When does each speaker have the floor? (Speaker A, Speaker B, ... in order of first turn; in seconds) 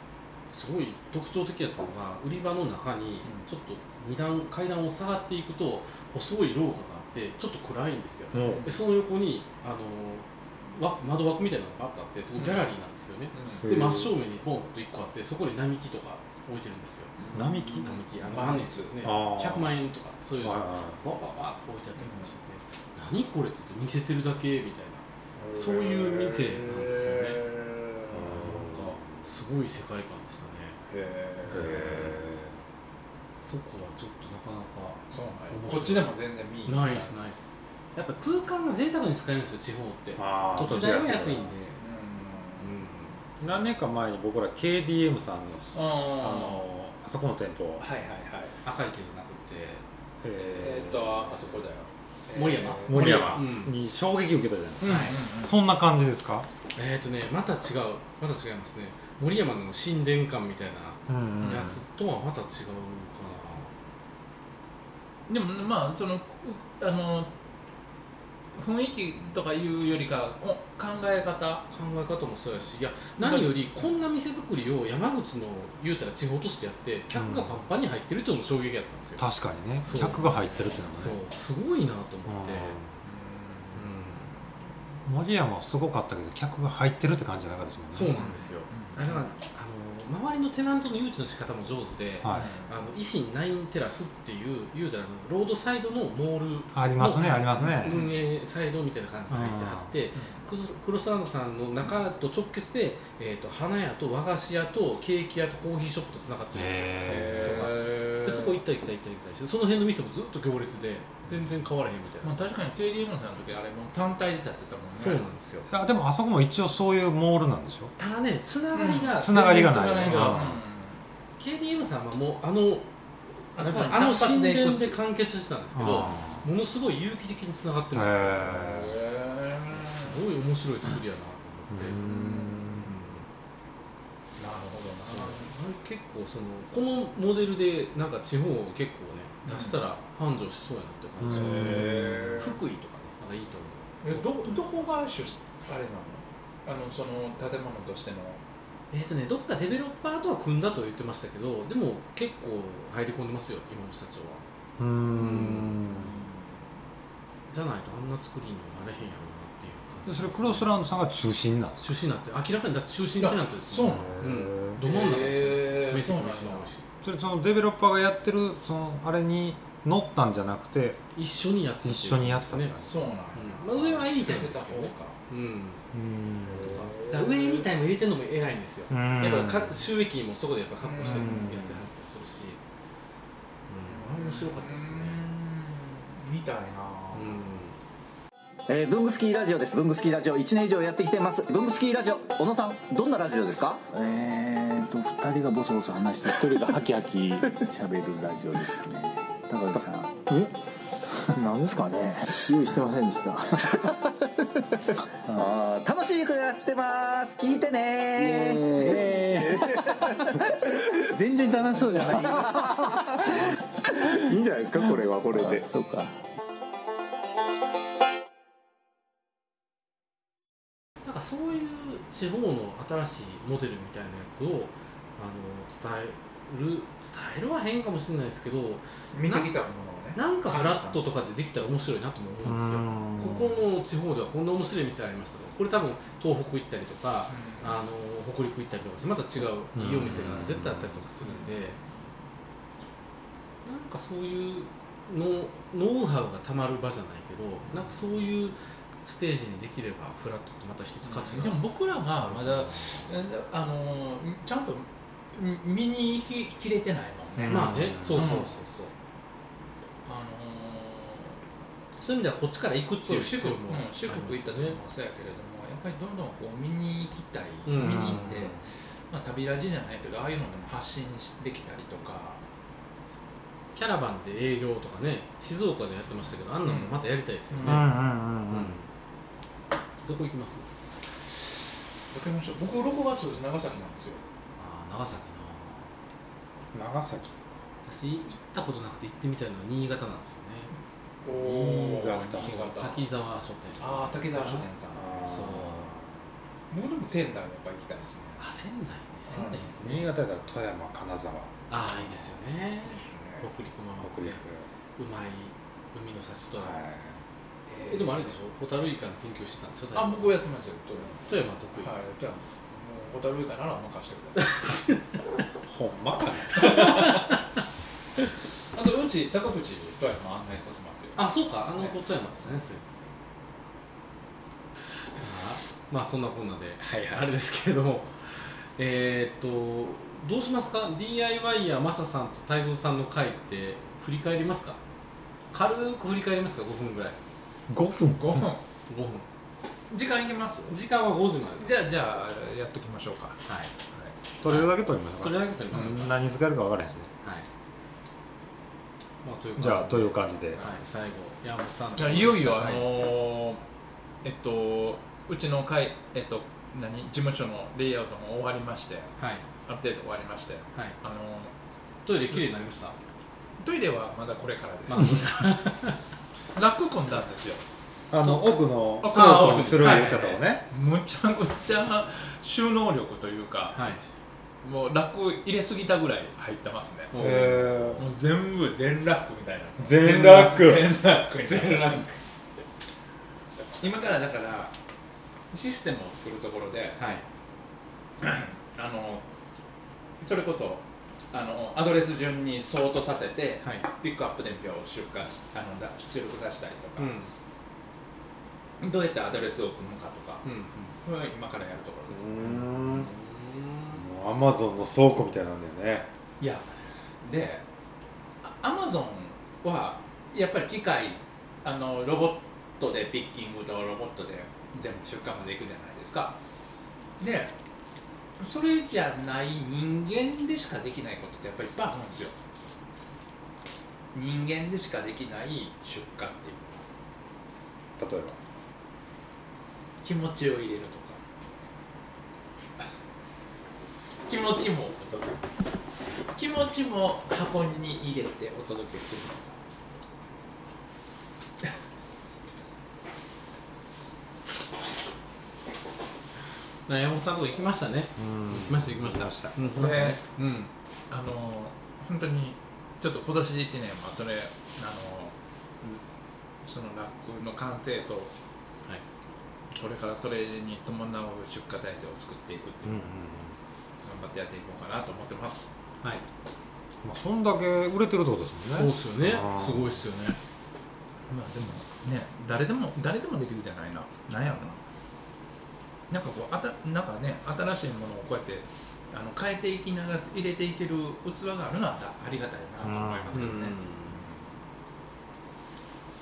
Speaker A: 0.5-17.2, 17.8-27.4, 28.2-30.8, 31.6-32.1, 33.4-36.1, 36.6-41.8, 42.6-43.1, 48.6-49.8, 52.3-53.7, 54.8-55.1, 56.7-63.7, 71.7-79.2, 79.8-82.8, 83.7-84.3, 87.9-112.5, 115.0-115.7, 118.0-120.4, 121.4-128.7, 129.7-132.1, 132.6-133.3, 135.0-144.6, 148.9-154.5, 155.1-155.7, 157.5-160.8, 161.8-166.8, 171.1-175.8, 176.5-182.6, 183.7-185.2, 187.1-187.8, 221.0-229.5, 230.1-241.8, 243.6-251.6, 252.3-252.8, 257.5-258.9, 262.0-264.8, 267.6-268.2, 273.7-277.9, 278.5-278.9, 280.0-280.6, 284.6-285.9, 287.8-290.7, 292.3-294.6, 295.2-295.9, 298.4-300.1, 301.7-304.4, 305.0-306.8, 307.8-310.3, 311.2-311.9, 314.4-315.5, 316.5-317.4, 321.1-322.8, 325.1-334.8, 335.5-337.2, 338.9-339.2, 340.7-341.7, 343.4-343.7, 344.4-346.1, 349.2-353.1, 359.2-359.4, 362.0-363.0, 364.9-366.0, 369.0-370.4, 373.7-374.0, 377.1-377.9, 381.4-382.2, 387.0-387.2, 397.0-397.3, 400.4-400.9, 402.7-403.9, 446.9-450.7, 468.7-470.4, 483.3-484.2
Speaker B: 8.3-8.7, 13.6-14.1, 17.3-17.9, 19.0-19.7, 20.4-21.0, 28.1-29.0, 31.5-32.6, 40.2-41.4, 43.4-47.8, 50.2-51.2, 52.9-56.5, 61.1-61.8, 77.1-77.5, 79.2-81.2, 82.3-82.9, 85.0-88.2, 92.2-92.5, 96.7-98.0, 99.3-99.9, 106.5-107.7, 115.7-117.9, 119.2-120.6, 125.7-126.5, 127.9-129.0, 131.7-132.9, 141.2-142.3, 154.8-156.2, 160.1-161.8, 163.9-164.8, 167.0-171.1, 171.8-172.9, 175.9-176.8, 178.9-179.8, 181.0-181.8, 232.4-233.6, 239.8-241.0, 257.4-258.4, 267.8-268.6, 277.6-278.8, 286.7-287.4, 291.2-292.5, 294.9-296.1, 299.8-301.6, 304.0-304.7, 306.6-307.2, 315.6-316.7, 337.7-338.5, 344.4-347.1, 349.6-350.7, 368.1-370.6, 377.1-378.1, 379.8-380.9, 402.1-403.1, 403.9-406.1, 428.0-428.4, 448.2-450.1, 462.8-463.6, 467.0-470.0, 482.8-483.4
Speaker C: 8.3-8.8, 12.4-12.7, 13.3-13.7, 17.2-18.9, 22.0-22.3, 25.4-28.6, 30.9-32.1, 35.1-37.1, 41.8-42.7, 45.7-46.7, 47.8-48.5, 50.4-53.4, 54.8-55.6, 61.4-61.7, 65.3-67.3, 68.5-71.7, 73.2-73.9, 83.0-84.4, 88.0-89.2, 92.3-92.7, 97.6-98.2, 100.1-100.5, 107.0-108.6, 112.2-115.2, 118.7-121.0, 123.6-125.0, 128.5-130.2, 132.0-132.8, 134.4-135.5, 139.4-139.8, 141.3-142.6, 144.0-148.4, 163.2-166.7, 172.8-175.2, 176.6-177.7, 180.8-181.5, 183.9-187.4, 229.1-231.0, 237.3-237.8, 241.2-241.8, 251.0-258.6, 260.0-261.4, 263.0-272.4, 276.6-277.0, 277.5-277.8, 281.2-284.2, 291.2-293.1, 293.8-295.3, 296.7-298.4, 299.3-299.7, 302.9-303.4, 307.7-308.3, 309.9-311.2, 311.8-314.8, 316.6-317.3, 318.7-321.2, 338.1-338.6, 339.9-340.8, 341.6-343.4, 345.7-346.1, 352.0-353.6, 354.2-361.5, 363.6-365.5, 366.5-367.6, 369.0-373.8, 374.6-377.1, 377.9-382.1, 383.8-384.7, 385.5-387.0, 388.2-389.2, 390.2-397.1, 398.8-402.8, 406.4-407.6, 408.4-416.4, 417.2-417.5, 418.4-422.4, 424.1-426.8, 430.0-431.2, 434.2-435.4, 436.3-439.6, 449.7-450.2, 451.1-456.0, 456.6-458.3, 459.7-463.1, 464.0-465.7, 471.3-474.8, 476.1-484.5
Speaker D: 188.7-193.9, 205.3-210.3, 211.3-213.5, 214.3-215.7
Speaker E: 193.9-200.5, 201.2-203.8, 208.2-210.2, 211.1-212.7, 214.3-216.1